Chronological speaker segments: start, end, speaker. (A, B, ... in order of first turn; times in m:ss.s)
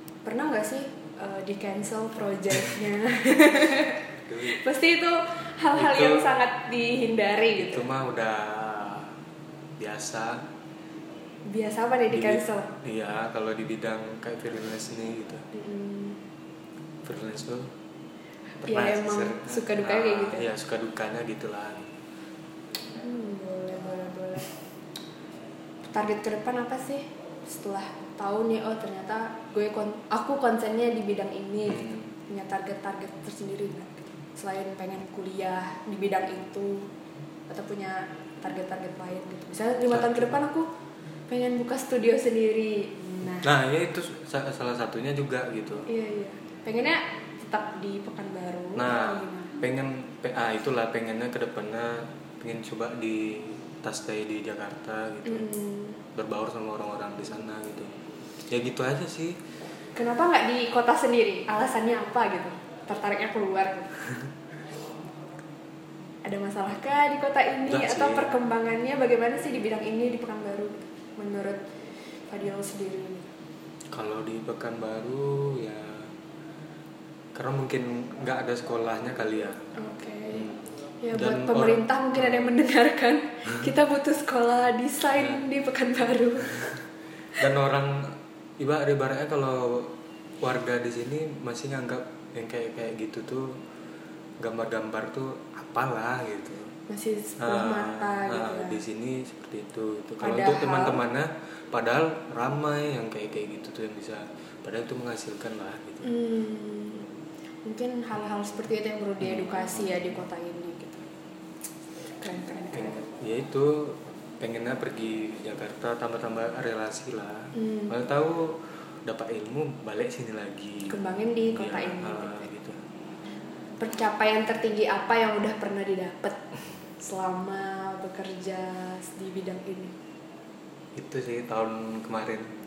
0:00.2-0:07.8 A
0:04.2-0:04.6 B
0:05.7-0:06.3 B
0:07.6-0:09.1 B
0:09.8-0:10.4 B
0:11.5-0:12.7 A
0:12.1-0:15.4 B
0:15.5-0:16.2 A
0:17.0-0:17.7 B
0:18.6-0:20.5 A
0:18.6-0:21.8 B
0:22.9-0:24.5 A
0:25.9-0:36.9 A
0:31.7-0:32.1 B
0:37.5-0:40.7 A
0:39.9-0:40.4 B
0:41.3-0:43.5 A
0:43.4-0:45.9 B
0:45.9-0:49.6 A
0:48.8-0:55.5 B
0:55.2-0:56.0 A
0:56.1-0:57.9 B
0:58.5-0:59.4 B
1:00.0-1:04.0 A
1:06.2-1:11.6 A
1:07.6-1:08.3 B
1:12.3-1:13.3 A
1:13.9-1:16.1 B
1:17.3-1:19.7 B
1:19.8-1:20.5 A
1:20.3-1:20.6 B
1:21.0-1:26.6 A
1:21.1-1:22.5 B
1:25.1-1:25.4 B
1:27.4-1:33.6 B
1:34.4-1:36.7 B
1:36.9-1:38.8 A
1:37.4-1:46.1 B
1:40.2-1:41.0 A
1:46.0-1:47.1 A
1:47.6-1:51.0 A
1:48.1-1:48.5 B
1:49.2-1:50.0 B
1:52.2-1:52.9 A
1:52.7-2:01.0 B
1:57.6-1:57.9 A
2:00.9-2:02.5 A
2:01.5-2:02.8 B
2:03.8-2:06.4 A
2:07.0-2:09.9 A
2:10.9-2:12.5 B